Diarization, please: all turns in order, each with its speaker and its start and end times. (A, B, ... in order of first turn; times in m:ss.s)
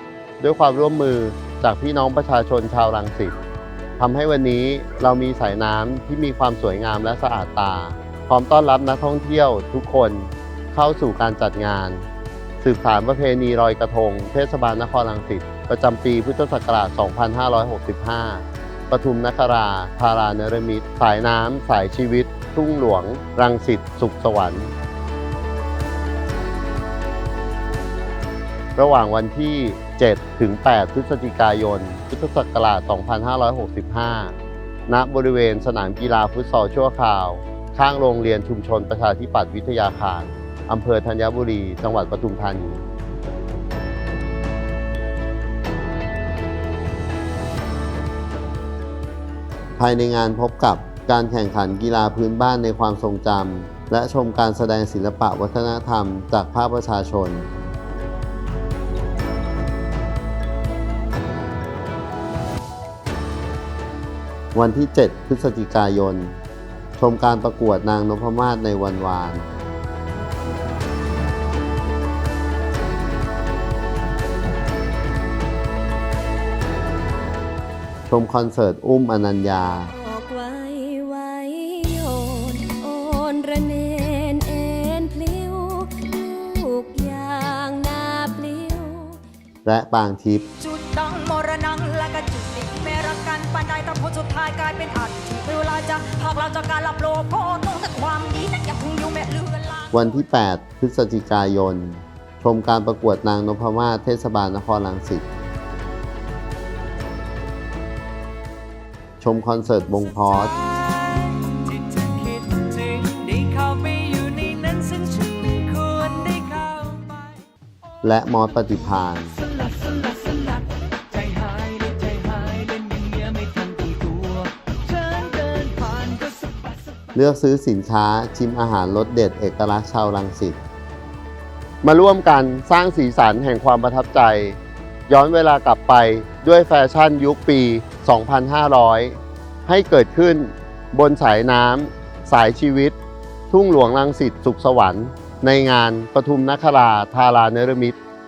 0:00.4-0:03.3 A
0:04.0-0:12.0 A
0:12.6-0:24.7 A
0:28.8-0:34.3 A
0:34.9-0:42.8 A
0:49.8-0:57.5 A
1:04.5-1:06.4 A
1:07.0-1:09.5 A
1:18.1-1:19.9 A
1:19.9-1:29.2 B
1:29.6-1:30.5 A
1:30.6-1:40.1 C
1:39.9-1:45.2 A
1:49.2-1:50.6 A
1:50.6-1:57.4 D
1:58.0-1:59.3 A
1:59.4-2:07.1 D
2:07.1-2:10.6 A
2:11.8-2:23.0 A
2:23.5-2:28.0 A